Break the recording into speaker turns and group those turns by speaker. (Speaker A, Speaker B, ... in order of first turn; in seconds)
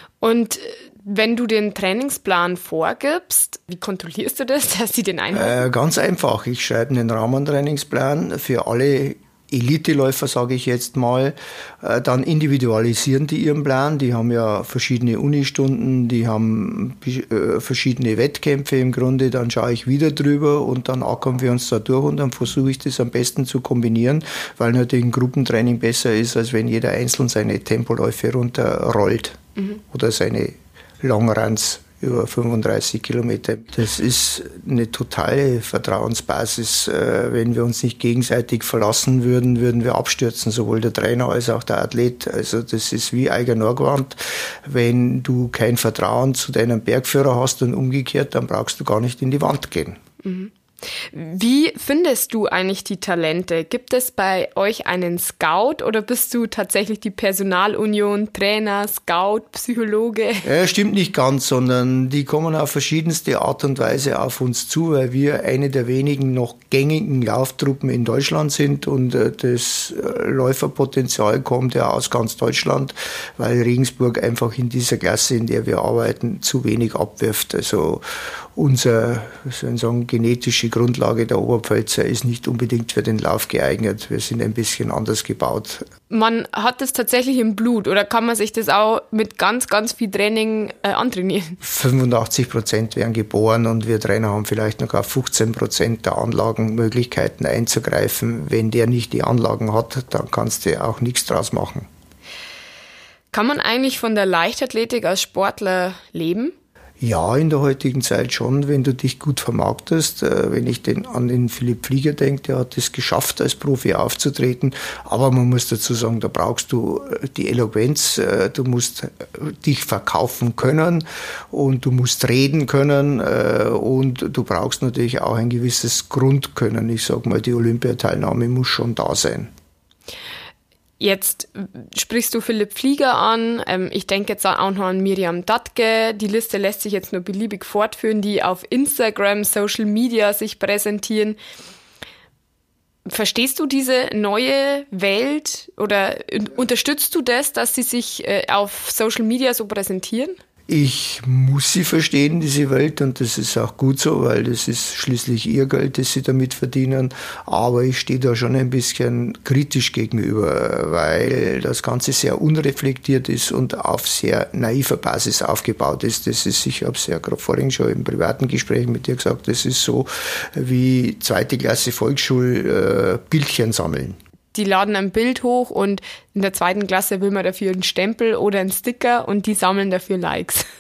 Speaker A: 0.2-5.6, 50.2-50.5, 51.1-60.5, 86.1-91.6, 103.3-106.5, 131.0-141.4, 143.1-150.4, 174.5-180.7
Speaker B: 5.3-50.0, 60.4-78.0, 78.5-85.8, 91.6-101.9, 107.0-129.5, 150.7-174.2